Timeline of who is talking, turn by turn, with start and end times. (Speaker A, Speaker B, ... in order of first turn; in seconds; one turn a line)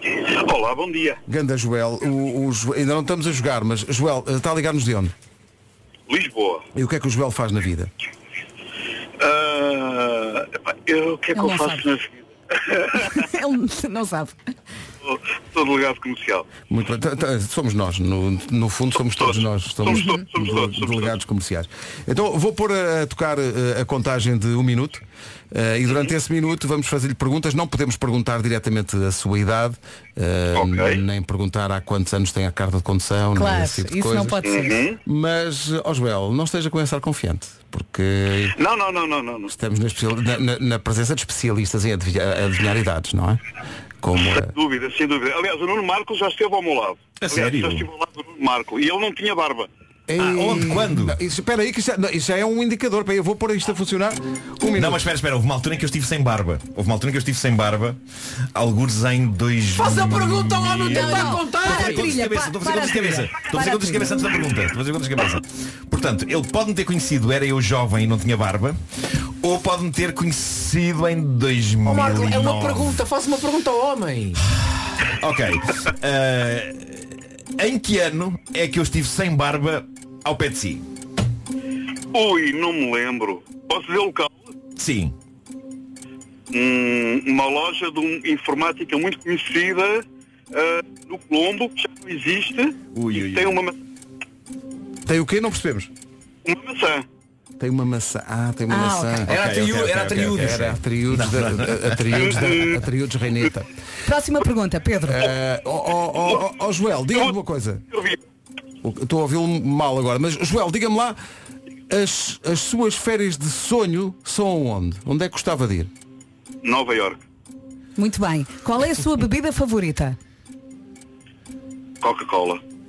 Speaker A: 0.3-1.2
Speaker B: 1.3-5.1
Speaker A: 6.1-6.6
Speaker B: 6.7-7.9
Speaker A: 9.2-13.2
Speaker C: 11.3-11.9
Speaker C: 13.0-14.4
Speaker A: 15.0-16.4
Speaker B: 16.7-25.0
Speaker A: 19.1-21.1
Speaker C: 19.9-20.3
Speaker B: 25.5-34.4
Speaker A: 30.6-31.0
Speaker C: 33.3-34.9
Speaker A: 34.4-35.0
Speaker B: 35.0-38.5
Speaker A: 38.5-39.5
Speaker B: 39.5-43.4
Speaker B: 44.0-44.5
Speaker A: 44.3-49.7
Speaker D: 47.2-47.9
Speaker B: 50.1-55.0
Speaker D: 50.2-51.2
Speaker D: 54.7-58.0
Speaker D: 58.5-68.8
Speaker E: 59.7-62.1
Speaker C: 61.0-64.4
Speaker D: 69.4-73.0
Speaker E: 71.8-74.4
Speaker D: 75.0-77.0
Speaker D: 77.6-80.8
Speaker A: 82.1-84.5
Speaker D: 84.8-85.1
Speaker A: 86.5-93.8
Speaker D: 92.9-93.6
Speaker B: 95.0-95.9
Speaker A: 96.5-97.0
Speaker B: 97.6-99.3
Speaker C: 98.7-99.2
Speaker D: 99.3-102.3
Speaker E: 99.3-100.8
Speaker B: 100.3-103.7
Speaker A: 102.2-102.8
Speaker C: 104.0-105.3
Speaker B: 105.1-107.8
Speaker A: 107.9-108.2
Speaker B: 108.8-111.2
Speaker B: 111.9-115.9
Speaker A: 116.6-117.2
Speaker C: 118.0-120.2
Speaker A: 122.0-122.6